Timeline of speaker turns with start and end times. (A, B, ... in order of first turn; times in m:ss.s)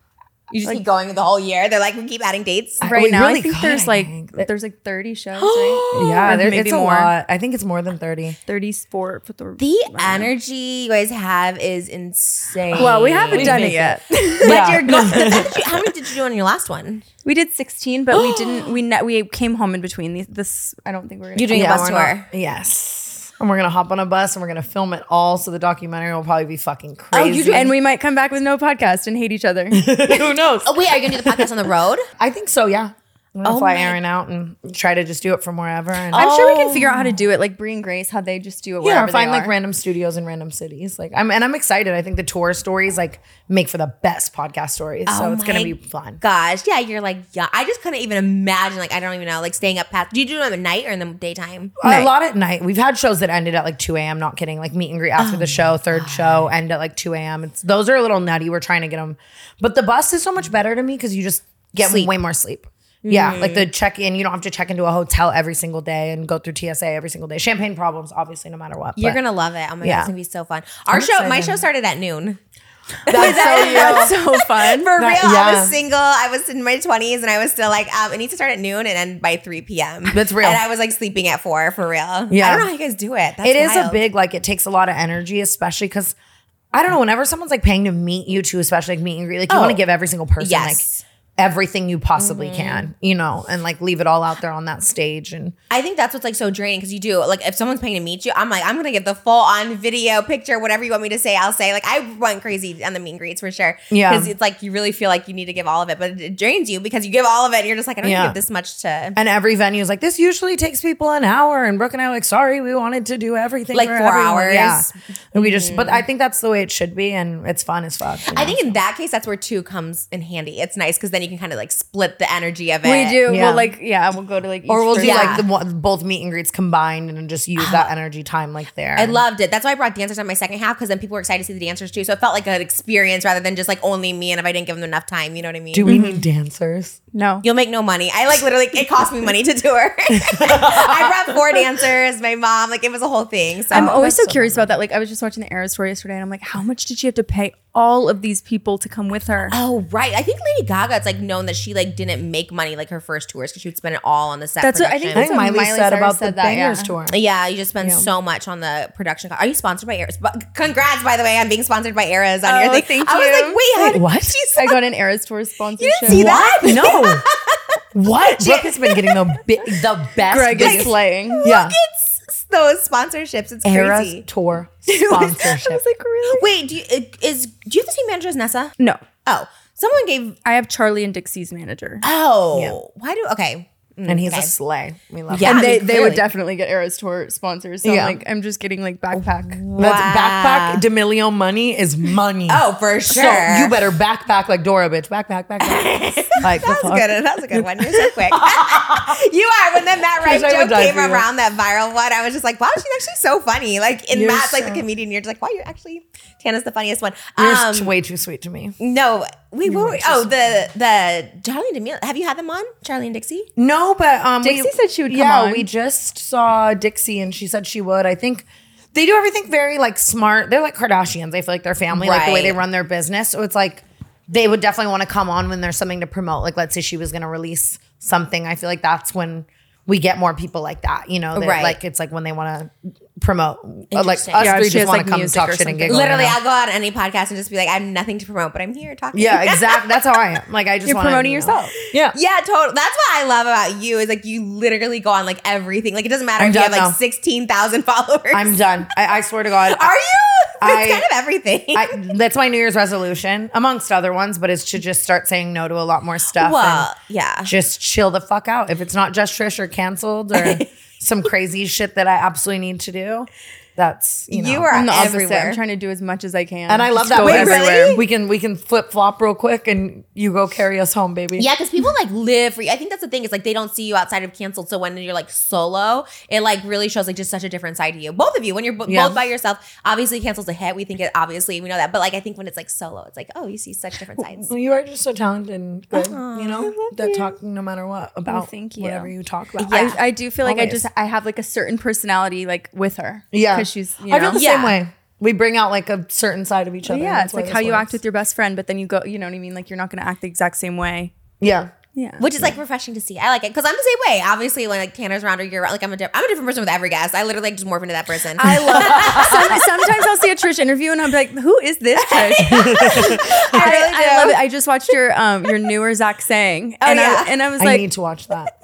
0:00.5-0:02.9 A
0:02.8-0:04.5 B
0:02.8-0:07.1 C
0:05.4-0:06.3 A
0:05.9-0:08.4 B
0:08.4-0:10.3 C
0:09.6-0:17.0 A
0:12.7-0:15.7 B
0:12.7-0:15.5 C
0:17.2-0:21.9 C
0:21.4-0:22.3 A
0:21.5-0:27.7 B
0:27.1-0:29.9 C
0:29.7-0:31.5 B
0:30.1-0:32.0 A
0:32.2-0:37.0 B
0:33.4-0:34.0 A
0:36.1-0:37.1 A
0:36.1-0:39.5 C
0:38.8-0:46.2 B
0:45.1-0:51.8 A
0:51.8-1:09.2 B
0:51.8-0:52.1 C
0:55.2-0:56.5 A
1:01.8-1:02.1 A
1:03.0-1:03.7 A
1:09.0-1:12.4 A
1:09.8-1:10.1 B
1:10.9-1:11.6 B
1:13.1-1:14.2 B
1:13.1-1:15.0 C
1:13.1-1:24.0 A
1:15.0-1:15.8 B
1:20.1-1:20.6 B
1:22.3-1:22.7 B
1:23.4-1:26.1 B
1:26.7-1:30.8 B
1:29.5-1:29.8 A
1:30.4-1:31.0 A
1:31.4-1:35.5 B
1:32.2-1:32.9 A
1:35.7-1:49.2 A
1:43.9-1:44.3 B
1:48.0-1:48.4 B
1:49.2-1:58.8 B
1:53.7-1:54.9 A
1:55.4-1:56.0 C
1:58.3-2:03.2 A
2:02.8-2:05.4 C
2:03.3-2:03.7 B
2:04.7-2:09.2 B
2:05.0-2:05.5 A
2:07.6-2:07.9 A
2:08.9-2:16.0 A
2:15.7-2:17.0 B
2:15.8-2:16.2 C
2:17.1-2:17.4 C
2:17.4-2:24.0 A
2:20.1-2:21.6 B
2:23.7-2:24.7 B
2:23.7-2:29.6 C
2:29.5-2:35.3 A
2:34.6-2:36.9 C
2:35.1-2:37.2 B
2:37.1-2:44.8 A
2:37.8-2:38.1 B
2:42.4-2:43.6 C
2:43.7-2:44.4 B
2:44.5-2:46.5 C
2:45.8-2:49.2 A
2:46.1-2:47.3 B
2:47.9-2:51.8 B
2:50.3-2:51.4 C
2:50.6-2:54.2 A
2:53.6-2:55.8 B
2:54.9-2:55.5 A
2:55.4-2:56.5 C
2:56.3-2:58.7 A
2:58.8-2:59.0 C
2:59.2-3:00.4 A
3:00.4-3:02.0 C
3:02.0-3:04.5 A
3:04.1-3:05.6 B
3:05.3-3:06.2 A
3:05.4-3:09.6 C
3:07.8-3:08.2 B
3:09.1-3:10.8 A
3:09.8-3:19.2 B
3:12.5-3:13.8 A
3:15.6-3:27.9 A
3:20.2-3:21.2 B
3:24.1-3:24.8 B
3:27.4-3:28.8 B
3:28.8-3:33.5 A
3:29.6-3:30.3 B
3:33.6-3:56.4 B
3:34.4-3:35.7 C
3:41.9-3:42.6 A
3:51.3-3:51.8 A
3:53.9-3:54.9 A
3:54.3-3:56.1 C
3:55.9-4:00.0 A
3:59.1-4:02.2 B
4:00.8-4:01.7 C
4:02.1-4:08.7 A
4:06.4-4:07.0 B
4:08.3-4:09.9 B
4:09.6-4:12.1 A
4:10.6-4:11.0 B
4:11.7-4:16.9 B
4:16.4-4:17.5 A
4:17.4-4:24.7 B
4:20.3-4:20.7 A
4:24.3-4:25.6 A
4:24.7-4:28.0 C
4:26.7-4:31.5 B
4:27.0-4:28.0 A
4:31.4-4:44.5 A
4:38.8-4:39.2 B
4:44.4-4:50.8 B
4:45.9-4:46.7 A
4:46.6-4:47.3 C
4:48.3-4:49.1 C
4:49.6-4:50.0 A
4:49.7-4:54.4 C
4:53.3-4:58.0 B
4:54.3-4:54.8 A
4:56.8-5:01.1 C
5:01.4-5:01.7 B
5:01.9-5:02.3 C
5:02.2-5:09.6 A
5:08.4-5:17.9 C
5:08.5-5:09.6 B
5:12.0-5:14.4 A
5:12.4-5:13.4 B
5:16.8-5:17.3 A
5:17.6-5:18.5 B